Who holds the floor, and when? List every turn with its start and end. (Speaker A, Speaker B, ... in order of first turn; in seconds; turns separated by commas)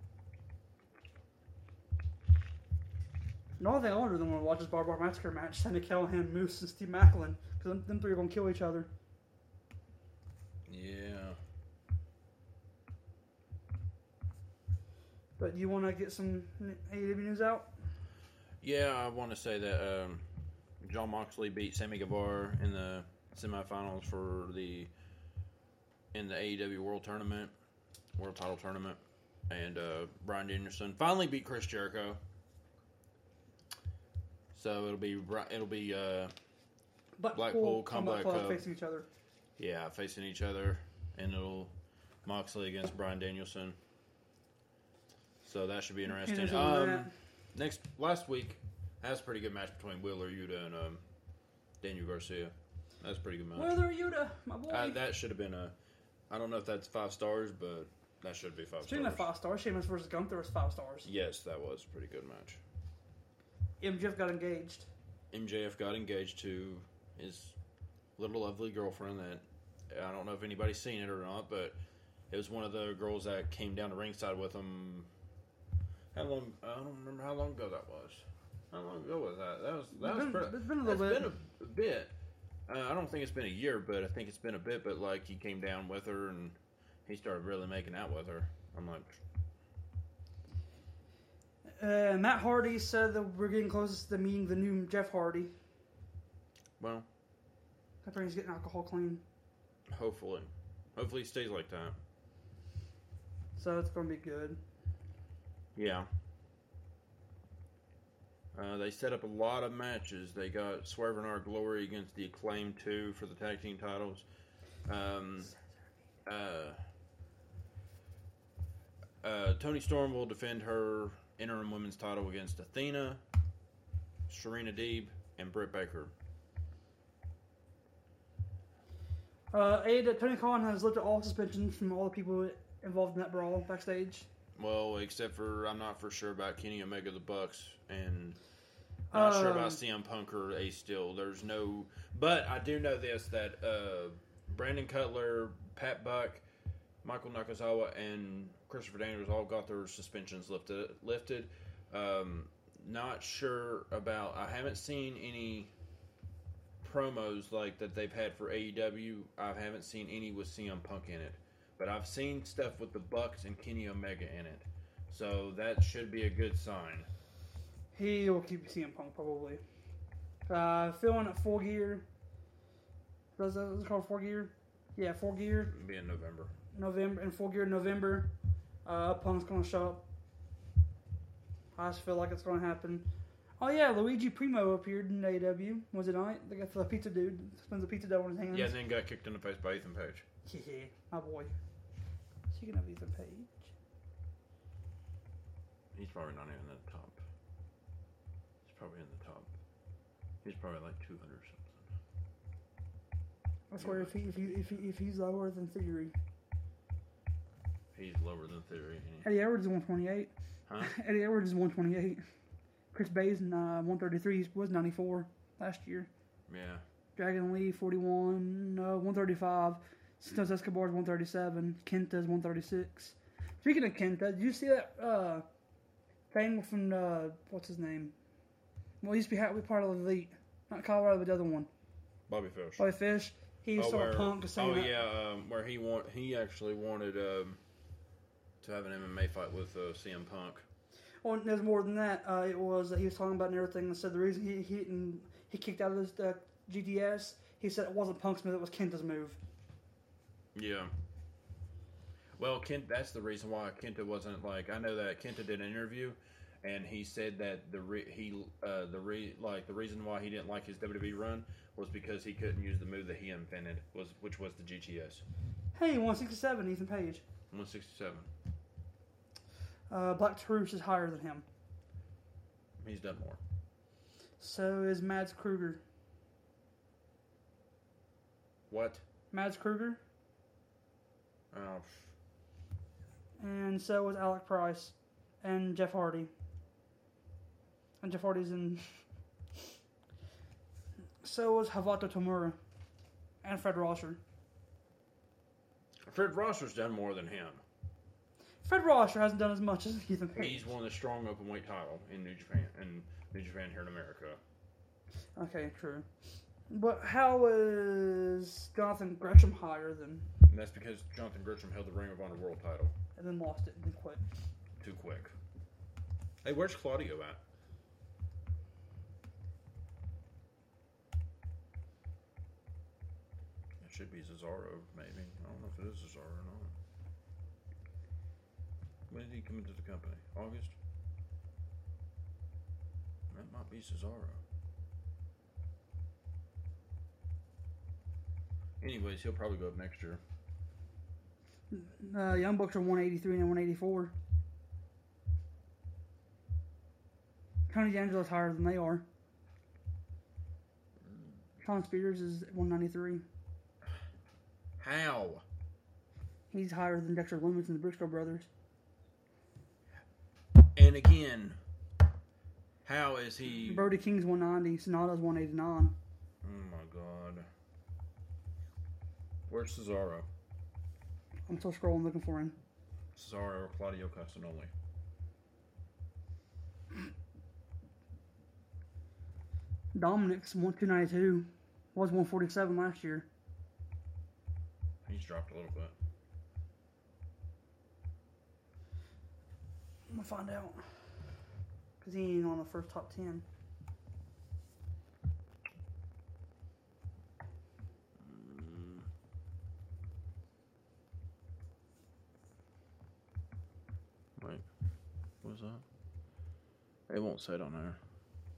Speaker A: 3.6-8.9, Speaker B: 10.7-11.4, Speaker A: 15.4-17.7, Speaker B: 18.6-20.2, Speaker B: 20.8-24.9, Speaker B: 26.1-27.5, Speaker B: 28.2-32.2, Speaker B: 34.5-36.3, Speaker A: 37.2-39.1, Speaker B: 37.3-38.6, Speaker B: 39.6-43.8, Speaker B: 45.4-51.0, Speaker A: 46.1-47.1, Speaker B: 51.8-53.8, Speaker A: 53.5-55.0, Speaker B: 54.7-55.8, Speaker B: 56.3-59.3, Speaker A: 58.8-61.1, Speaker B: 61.0-62.6, Speaker A: 63.8-64.9, Speaker B: 65.3-67.5, Speaker B: 68.2-71.8, Speaker B: 72.3-75.1, Speaker B: 76.1-82.1, Speaker A: 79.9-81.3, Speaker B: 82.7-89.2, Speaker A: 91.8-95.5, Speaker B: 96.8-97.1, Speaker A: 98.0-99.2, Speaker B: 99.9-102.0, Speaker A: 103.5-104.6, Speaker B: 105.8-106.1, Speaker B: 108.5-114.2, Speaker B: 114.9-115.5, Speaker B: 116.2-116.8, Speaker B: 119.2-123.2, Speaker B: 124.3-126.1, Speaker A: 129.5-134.3, Speaker B: 134.6-138.4, Speaker A: 139.1-139.8, Speaker B: 139.1-146.4, Speaker B: 147.0-155.7, Speaker B: 156.8-167.1, Speaker A: 167.9-169.6, Speaker A: 170.5-172.1, Speaker A: 173.4-175.7, Speaker B: 175.7-176.5, Speaker A: 176.7-178.3, Speaker A: 178.8-180.0, Speaker A: 181.8-183.1, Speaker A: 183.6-188.8, Speaker B: 188.5-190.2, Speaker A: 190.5-191.5, Speaker A: 192.5-193.7, Speaker B: 195.9-197.2, Speaker B: 198.6-199.5, Speaker B: 200.4-201.8, Speaker A: 203.7-206.1, Speaker B: 203.8-204.2, Speaker B: 207.9-209.3, Speaker A: 209.2-212.2, Speaker B: 210.7-210.9, Speaker A: 212.9-216.1, Speaker B: 216.5-216.8, Speaker A: 217.2-225.4, Speaker A: 226.3-228.1, Speaker A: 229.0-231.7, Speaker B: 232.3-232.8, Speaker A: 232.8-234.9, Speaker B: 233.8-237.6, Speaker B: 238.6-240.6, Speaker A: 241.2-249.4, Speaker B: 250.5-250.9, Speaker B: 252.4-265.2, Speaker A: 265.8-267.2, Speaker B: 267.5-268.3, Speaker A: 269.9-271.5, Speaker B: 272.8-273.4, Speaker A: 274.4-275.8, Speaker B: 278.7-279.0, Speaker A: 279.3-280.0, Speaker B: 281.5-282.1, Speaker A: 283.4-286.3, Speaker A: 288.0-289.0, Speaker A: 291.2-292.6, Speaker A: 293.4-294.2, Speaker B: 296.1-297.6, Speaker A: 298.6-300.7, Speaker B: 300.4-304.4, Speaker A: 305.4-306.1, Speaker A: 306.7-310.3, Speaker B: 310.5-312.9, Speaker A: 313.1-314.2, Speaker B: 314.8-315.3, Speaker B: 316.4-317.4, Speaker B: 323.8-326.8, Speaker B: 329.1-330.8, Speaker B: 333.3-334.4, Speaker B: 338.8-340.2, Speaker A: 341.7-344.1, Speaker A: 347.7-349.1, Speaker A: 351.6-353.2, Speaker B: 354.8-355.4, Speaker A: 356.5-358.5, Speaker B: 360.8-361.6, Speaker B: 362.9-363.9, Speaker A: 363.6-366.0, Speaker B: 366.4-367.5, Speaker B: 369.5-370.3, Speaker A: 371.5-372.6, Speaker B: 373.1-374.7, Speaker A: 379.9-383.3, Speaker B: 385.0-385.9, Speaker A: 390.1-390.8, Speaker A: 392.0-393.4, Speaker B: 398.2-399.1, Speaker B: 404.4-404.6, Speaker B: 405.4-405.8, Speaker B: 407.1-408.0